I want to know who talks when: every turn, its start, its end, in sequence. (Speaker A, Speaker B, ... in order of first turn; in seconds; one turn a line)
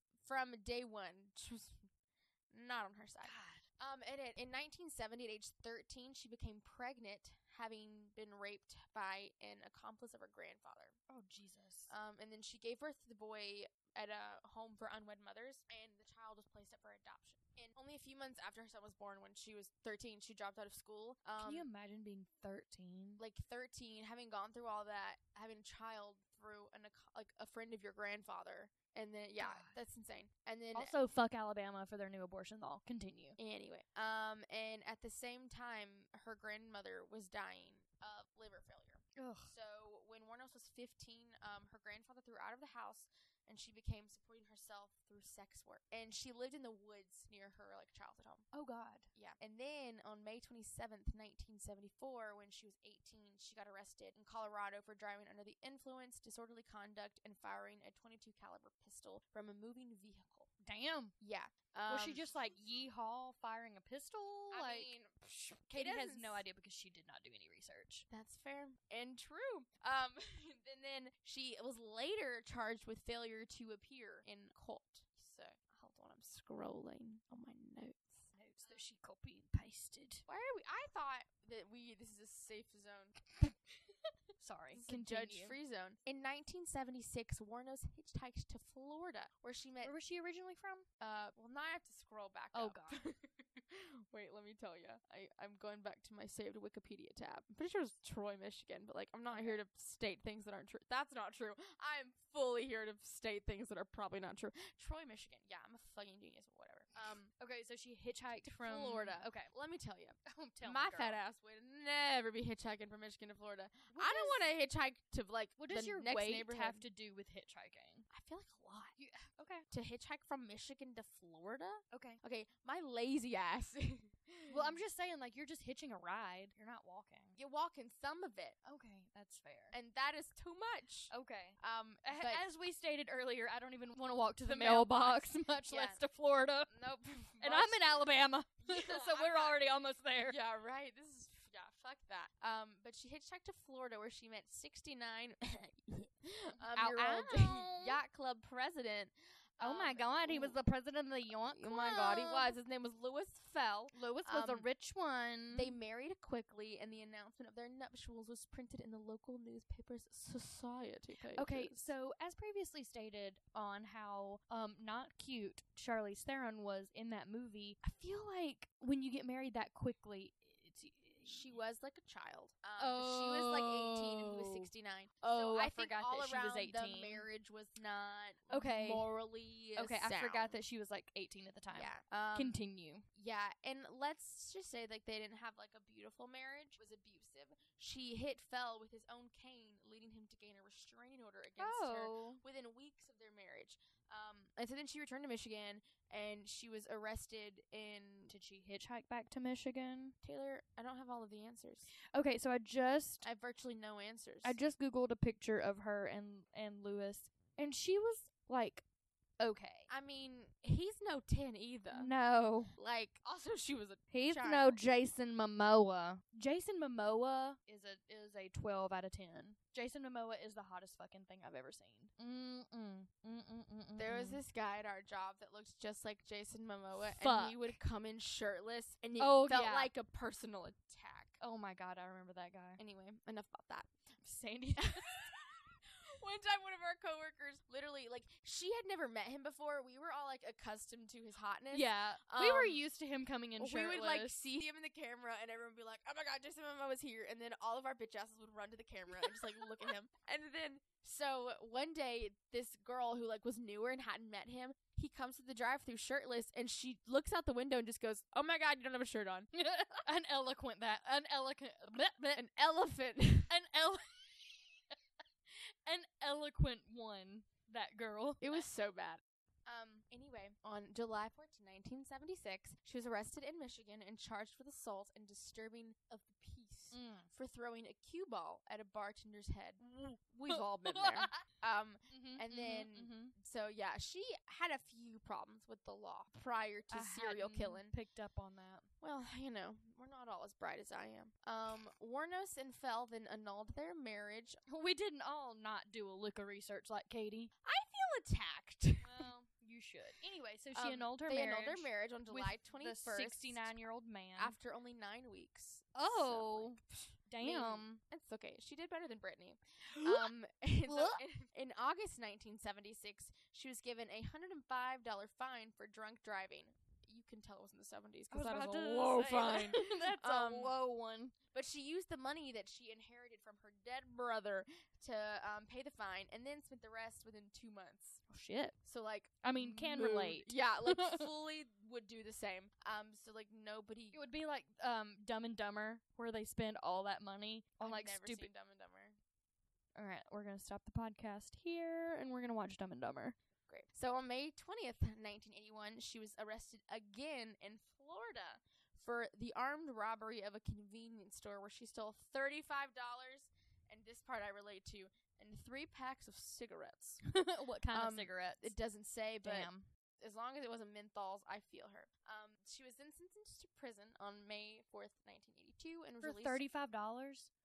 Speaker A: 0.2-1.9
Speaker A: 2.5-10.9
Speaker B: 3.2-3.6
Speaker B: 11.1-11.9
Speaker A: 11.9-21.7
Speaker B: 21.4-23.2
Speaker A: 23.2-30.9
Speaker B: 29.4-29.8
Speaker B: 30.7-33.4
Speaker A: 33.4-48.5
Speaker B: 39.1-39.5
Speaker B: 48.5-49.1
Speaker A: 49.1-60.5
Speaker B: 60.6-61.1
Speaker A: 61.2-62.4
Speaker B: 61.9-64.9
Speaker A: 64.5-66.4
Speaker B: 65.7-68.0
Speaker A: 68.1-78.8
Speaker B: 78.3-80.2
Speaker A: 80.3-83.2
Speaker B: 84.4-85.5
Speaker A: 84.7-89.9
Speaker B: 89.8-90.8
Speaker A: 91.0-107.3
Speaker B: 92.5-93.0
Speaker B: 99.3-99.6
Speaker B: 107.4-109.5
Speaker A: 108.4-116.8
Speaker B: 110.3-111.2
Speaker B: 113.9-114.5
Speaker B: 115.6-118.1
Speaker A: 118.1-119.0
Speaker B: 119.0-119.7
Speaker A: 119.7-124.8
Speaker B: 121.9-122.2
Speaker B: 124.5-127.4
Speaker A: 127.4-128.6
Speaker B: 128.6-129.7
Speaker A: 129.7-132.4
Speaker B: 131.1-136.7
Speaker A: 134.4-136.0
Speaker A: 136.7-138.0
Speaker B: 137.4-140.4
Speaker A: 138.6-150.6
Speaker B: 146.7-148.0
Speaker B: 149.6-152.6
Speaker A: 151.4-154.7
Speaker B: 153.9-155.7
Speaker A: 155.5-161.9
Speaker B: 161.3-171.6
Speaker A: 171.2-180.6
Speaker B: 172.8-174.7
Speaker B: 175.3-177.2
Speaker B: 178.5-179.1
Speaker B: 179.8-183.0
Speaker A: 181.7-182.6
Speaker A: 183.1-198.3
Speaker B: 191.6-192.4
Speaker B: 198.3-200.1
Speaker A: 200.2-201.9
Speaker B: 202.1-203.2
Speaker A: 203.2-204.6
Speaker B: 204.4-208.8
Speaker B: 209.4-209.9
Speaker A: 209.9-212.1
Speaker B: 211.9-212.7
Speaker A: 212.7-214.8
Speaker B: 214.1-224.4
Speaker A: 224.0-231.4
Speaker B: 227.0-227.8
Speaker B: 229.2-229.9
Speaker B: 231.4-232.8
Speaker A: 232.8-233.9
Speaker B: 234.2-235.1
Speaker A: 234.8-242.8
Speaker B: 241.7-244.4
Speaker A: 243.6-259.5
Speaker B: 249.2-249.9
Speaker B: 259.5-262.4
Speaker A: 262.3-263.5
Speaker B: 263.5-264.9
Speaker B: 265.5-268.6
Speaker A: 268.4-287.9
Speaker B: 276.9-277.3
Speaker B: 280.5-281.4
Speaker B: 282.1-283.3
Speaker B: 286.9-288.9
Speaker A: 289.0-294.6
Speaker B: 294.7-297.5
Speaker A: 297.6-299.3
Speaker B: 299.0-304.6
Speaker A: 300.7-303.7
Speaker A: 304.4-320.8
Speaker B: 305.9-308.0
Speaker B: 309.9-310.3
Speaker B: 310.9-311.2
Speaker B: 318.3-321.3
Speaker A: 321.5-328.2
Speaker B: 328.3-328.8
Speaker A: 328.8-334.2
Speaker B: 329.4-331.3
Speaker B: 334.1-338.5
Speaker A: 337.8-339.2
Speaker B: 339.9-343.4
Speaker A: 343.7-357.2
Speaker B: 357.2-358.7
Speaker A: 357.9-366.6
Speaker B: 359.4-359.9
Speaker B: 366.2-367.5